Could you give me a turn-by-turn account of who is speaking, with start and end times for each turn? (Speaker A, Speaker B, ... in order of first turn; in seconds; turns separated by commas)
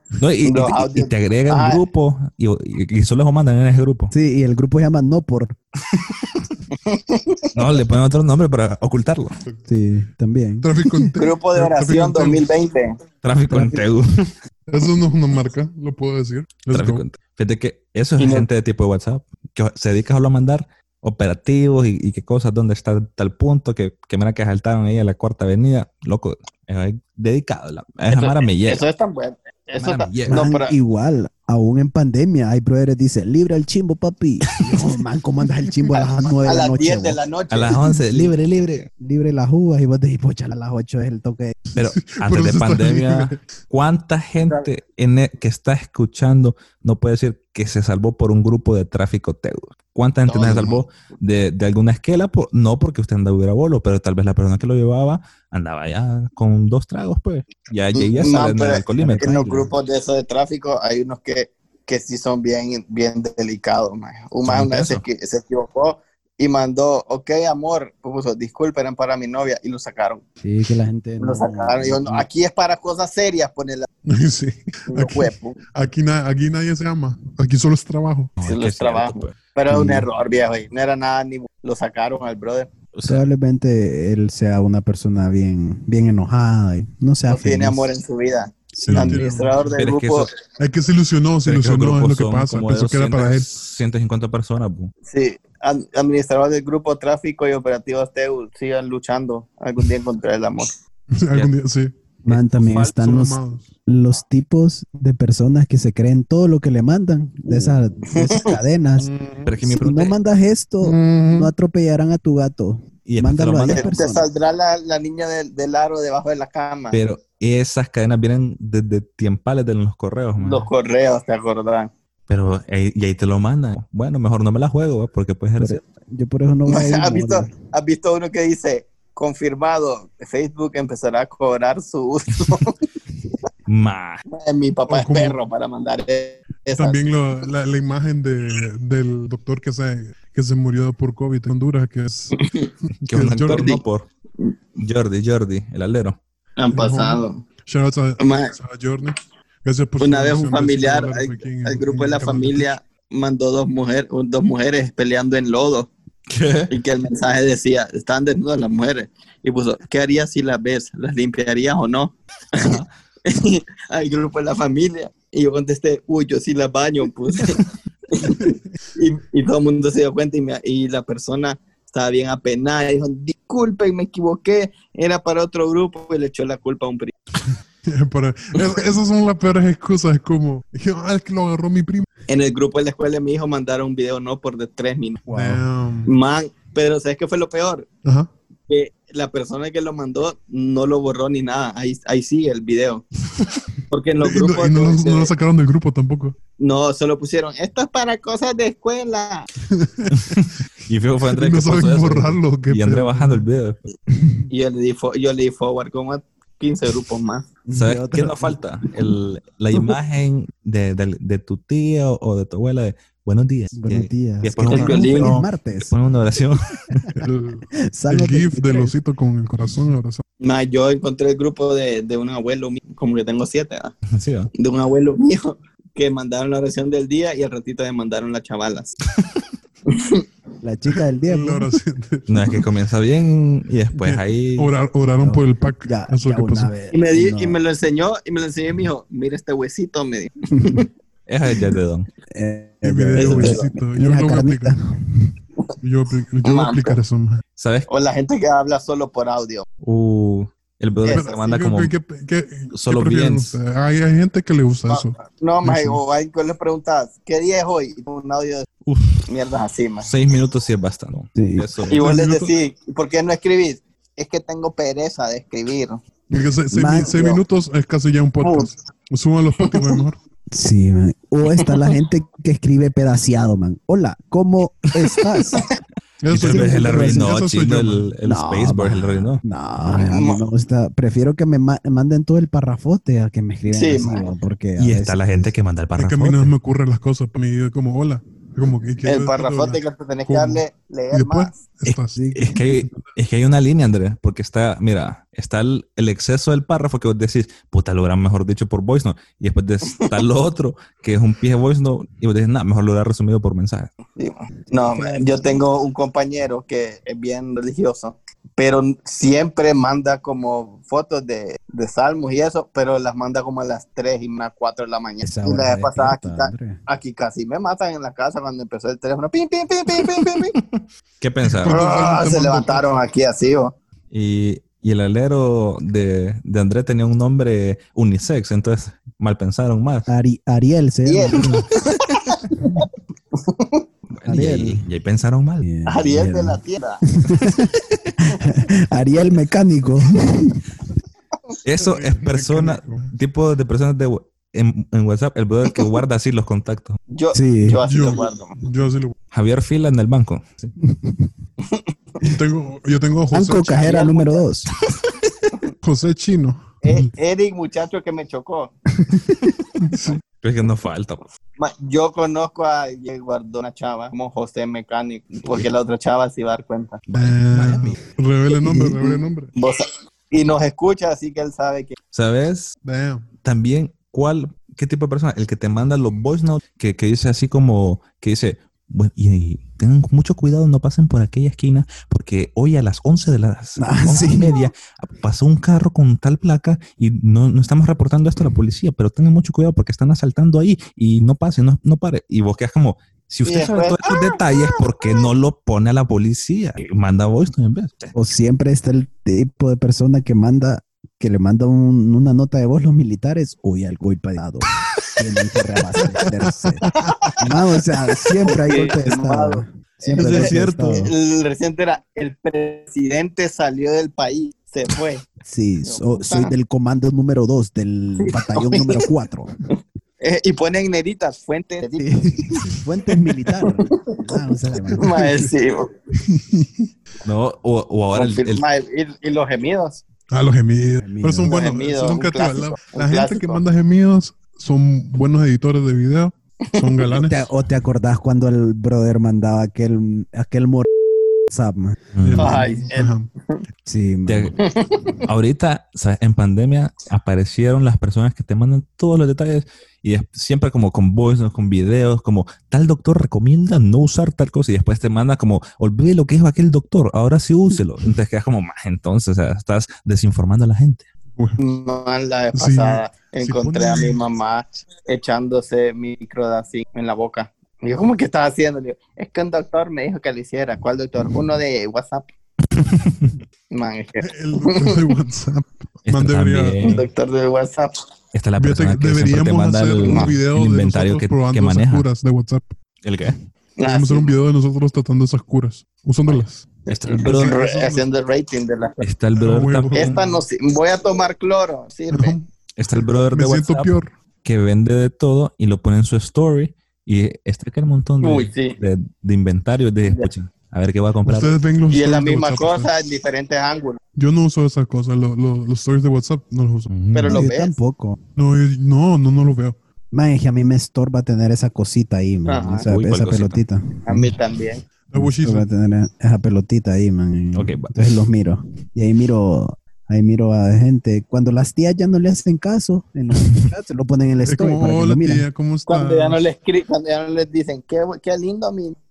Speaker A: 0.2-4.1, Speaker B: 0.4-1.8, Speaker C: 4.1-5.5, Speaker A: 5.9-6.4, Speaker B: 6.7-7.2, Speaker A: 7.5-9.3, Speaker C: 9.7-11.1, Speaker D: 10.6-12.5, Speaker B: 11.2-12.9, Speaker A: 13.2-14.3, Speaker C: 13.5-13.8, Speaker D: 14.7-17.1, Speaker A: 16.7-28.8, Speaker B: 18.2-18.5, Speaker B: 28.1-30.7, Speaker A: 29.8-30.4, Speaker C: 30.3-37.2, Speaker B: 36.5-37.8, Speaker A: 37.5-38.9, Speaker C: 39.0-41.5, Speaker D: 41.7-43.4, Speaker A: 41.8-59.7, Speaker B: 50.2-50.8, Speaker B: 57.9-70.2, Speaker C: 59.0-59.3, Speaker A: 64.4-65.0, Speaker C: 70.4-72.2, Speaker B: 71.2-73.9, Speaker D: 74.1-78.3, Speaker B: 74.9-75.6, Speaker A: 78.4-79.3, Speaker B: 78.4-82.7, Speaker C: 79.7-80.1, Speaker A: 82.9-83.3, Speaker C: 83.0-87.9, Speaker B: 87.3-90.3, Speaker C: 88.7-89.3, Speaker D: 88.8-89.6, Speaker A: 89.8-90.3, Speaker D: 90.6-93.5, Speaker A: 91.4-94.9, Speaker B: 95.0-100.8, Speaker D: 101.1-102.0, Speaker C: 102.2-109.1, Speaker A: 102.3-102.9, Speaker D: 102.8-103.7, Speaker D: 109.0-109.6, Speaker A: 109.5-110.2, Speaker C: 109.7-114.3, Speaker D: 110.8-111.5, Speaker A: 113.0-114.0, Speaker B: 113.7-117.0, Speaker A: 116.9-120.7, Speaker B: 120.4-121.9, Speaker A: 122.3-125.8, Speaker C: 125.6-127.5, Speaker B: 126.7-132.7, Speaker A: 133.7-134.2, Speaker B: 134.3-137.0, Speaker D: 134.9-135.4, Speaker D: 136.7-142.3, Speaker D: 142.9-143.7, Speaker A: 143.1-144.1, Speaker B: 143.5-143.8, Speaker A: 144.8-146.2, Speaker B: 146.6-147.4, Speaker D: 146.7-152.7, Speaker B: 148.2-148.5, Speaker B: 150.0-155.9, Speaker A: 156.3-156.7, Speaker B: 156.7-162.7, Speaker A: 162.6-162.9, Speaker B: 163.3-167.6, Speaker B: 168.2-177.1, Speaker D: 168.3-168.5, Speaker D: 177.4-182.1, Speaker B: 182.3-185.2, Speaker C: 185.3-185.6, Speaker D: 185.3-186.1, Speaker B: 186.1-187.9, Speaker D: 188.0-188.3, Speaker B: 188.7-193.0, Speaker B: 193.9-195.3, Speaker D: 194.2-196.3, Speaker B: 196.6-199.5, Speaker D: 199.7-200.5, Speaker A: 200.2-203.8, Speaker D: 201.3-203.4, Speaker B: 204.5-207.4, Speaker C: 207.7-208.6, Speaker A: 207.7-217.0, Speaker C: 213.8-215.9, Speaker B: 214.6-215.4, Speaker D: 217.1-220.2, Speaker C: 217.9-218.9, Speaker B: 220.4-223.9, Speaker A: 224.1-224.5, Speaker B: 224.5-228.9, Speaker B: 229.9-230.2, Speaker C: 230.6-231.7, Speaker D: 231.2-232.5, Speaker A: 232.3-234.7, Speaker D: 233.9-236.7, Speaker C: 235.2-237.6, Speaker B: 236.9-240.8, Speaker A: 241.3-242.1, Speaker C: 242.3-245.3, Speaker D: 242.8-244.7, Speaker B: 243.1-243.7, Speaker D: 245.8-247.4, Speaker B: 246.4-247.0, Speaker A: 247.6-247.9, Speaker B: 247.9-249.7, Speaker A: 249.8-251.9, Speaker B: 251.0-251.5, Speaker D: 251.1-256.0, Speaker A: 252.7-253.6, Speaker B: 254.9-258.6, Speaker B: 259.3-260.1, Speaker A: 260.0-262.0, Speaker C: 261.4-261.7, Speaker B: 261.9-266.0, Speaker D: 261.9-262.5, Speaker D: 266.3-270.2, Speaker C: 266.7-267.4, Speaker B: 268.4-268.7, Speaker B: 269.6-270.0, Speaker C: 270.5-275.6, Speaker D: 276.2-278.1, Speaker A: 276.3-279.4, Speaker C: 276.4-277.3, Speaker C: 278.2-285.2, Speaker B: 279.9-280.4, Speaker B: 283.7-284.3, Speaker A: 284.8-286.5, Speaker D: 285.9-293.0, Speaker B: 289.0-291.5, Speaker A: 291.9-303.9, Speaker C: 292.1-292.6, Speaker B: 304.1-320.5, Speaker C: 304.9-305.6, Speaker C: 315.2-316.8, Speaker A: 319.9-321.8, Speaker D: 321.4-322.8, Speaker B: 321.7-323.7, Speaker A: 324.1-330.1, Speaker C: 330.1-331.6, Speaker B: 331.0-332.3, Speaker B: 333.3-333.8, Speaker A: 334.1-335.7, Speaker C: 334.3-334.8, Speaker C: 335.6-336.6, Speaker B: 335.9-337.0, Speaker C: 337.2-337.7, Speaker C: 338.4-340.7, Speaker A: 341.6-347.0, Speaker D: 341.8-343.1, Speaker B: 347.1-348.6, Speaker C: 347.3-347.8, Speaker D: 347.9-349.1, Speaker A: 349.3-350.7, Speaker C: 350.8-351.3, Speaker D: 352.2-353.9, Speaker C: 353.3-354.7, Speaker B: 353.7-354.4, Speaker D: 355.8-357.1, Speaker B: 356.8-358.7, Speaker C: 359.1-359.5, Speaker A: 359.9-361.2, Speaker B: 361.6-367.0, Speaker A: 367.1-368.0, Speaker D: 367.1-369.5, Speaker B: 369.0-369.8, Speaker B: 370.3-372.0, Speaker A: 372.1-372.7, Speaker D: 372.8-373.3, Speaker A: 373.4-398.1, Speaker C: 383.8-384.7, Speaker B: 393.4-394.0, Speaker C: 398.1-406.8, Speaker D: 405.9-407.1, Speaker C: 407.4-411.1, Speaker B: 408.5-415.2, Speaker A: 410.1-411.1, Speaker C: 415.4-419.5, Speaker B: 415.8-416.5, Speaker B: 418.2-419.1, Speaker B: 420.2-422.1, Speaker C: 422.0-425.1, Speaker D: 424.9-425.5, Speaker B: 425.0-425.9, Speaker D: 426.1-426.9, Speaker A: 427.2-428.6, Speaker B: 428.1-430.0, Speaker D: 430.3-437.4, Speaker C: 431.0-431.5, Speaker B: 431.4-433.6, Speaker B: 436.7-437.1, Speaker C: 437.2-440.9, Speaker C: 441.5-442.0, Speaker A: 442.1-442.6, Speaker D: 442.2-443.3, Speaker B: 442.4-443.6, Speaker C: 443.9-444.5, Speaker A: 444.3-444.5, Speaker B: 444.6-445.0, Speaker A: 445.2-461.1, Speaker B: 461.6-472.2, Speaker D: 462.5-464.2, Speaker A: 472.8-473.4, Speaker B: 473.7-475.1, Speaker D: 474.2-476.8, Speaker A: 476.1-477.1, Speaker B: 476.8-477.9, Speaker A: 478.3-482.1, Speaker D: 478.6-482.8, Speaker B: 480.1-480.4, Speaker A: 483.0-483.4, Speaker B: 483.8-484.3, Speaker D: 483.8-486.7, Speaker A: 486.9-487.5, Speaker B: 486.9-489.0, Speaker D: 487.2-488.1, Speaker A: 489.0-490.2, Speaker D: 489.4-490.4, Speaker B: 489.9-492.4, Speaker D: 492.1-492.5, Speaker A: 492.8-501.6, Speaker D: 493.3-494.1, Speaker B: 498.2-498.8, Speaker D: 501.2-502.9, Speaker B: 501.9-504.0, Speaker D: 504.1-507.0, Speaker A: 506.9-507.5, Speaker B: 507.1-507.8, Speaker C: 507.3-508.2, Speaker D: 508.4-509.8, Speaker C: 510.1-514.4, Speaker B: 512.5-512.9, Speaker A: 512.9-513.6, Speaker B: 514.0-514.8, Speaker D: 515.1-515.6, Speaker C: 515.1-525.5, Speaker A: 517.5-518.0, Speaker D: 524.4-526.4, Speaker B: 525.9-529.0